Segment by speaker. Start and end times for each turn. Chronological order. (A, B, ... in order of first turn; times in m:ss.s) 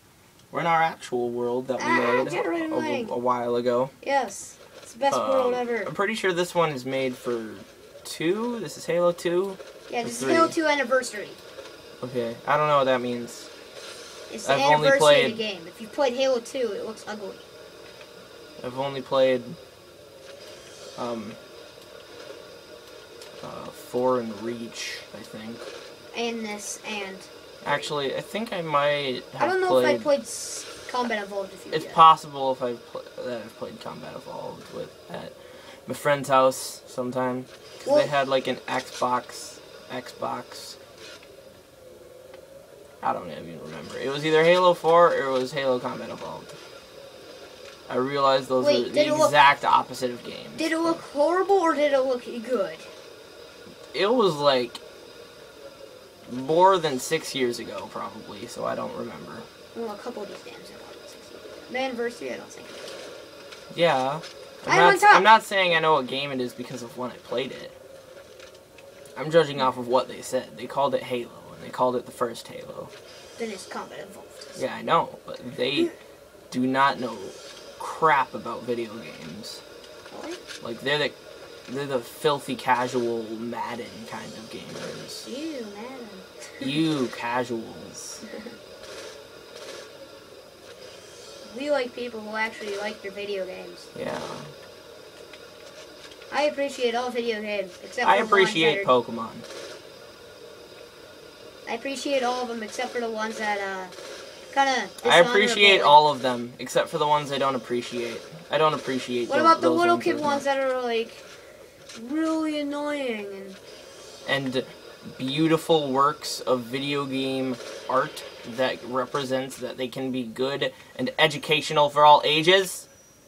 0:00.5-0:03.9 A
0:01.8-0:03.2 B
0:04.0-0:05.9 B
0:05.1-0:10.6 A
0:09.9-0:11.4 B
0:12.0-0:13.5 A
0:14.3-0:17.4 B
0:14.4-0:15.4 A
0:18.6-0:19.6 A
0:21.0-0:21.4 A
0:23.4-0:25.7 A
0:26.1-0:27.3 B
0:27.6-0:30.1 A
0:29.4-0:32.0 B
0:31.7-0:35.4 A
0:35.9-0:40.8 A
0:37.8-0:38.1 B
0:43.0-0:46.6 A
0:47.9-0:51.0 A
0:48.6-0:49.4 B
0:50.6-0:52.9 B
0:53.9-0:54.8 A
0:56.3-0:59.5 A
0:59.7-1:03.0 B
1:03.7-1:07.8 A
1:04.7-1:05.3 B
1:09.2-1:12.9 A
1:13.4-1:14.6 B
1:14.6-1:15.9 A
1:16.5-1:19.6 A
1:20.1-1:20.4 B
1:20.6-1:21.1 A
1:21.7-1:25.3 A
1:25.2-1:26.8 B
1:26.6-1:28.2 A
1:31.4-1:33.9 B
1:33.9-1:34.5 A
1:36.3-1:38.9 B
1:38.0-1:39.4 A
1:41.7-1:43.9 B
1:44.5-1:46.0 B
1:45.0-1:50.4 A
1:49.3-1:51.2 B
1:51.9-1:53.6 B
1:54.2-2:02.9 A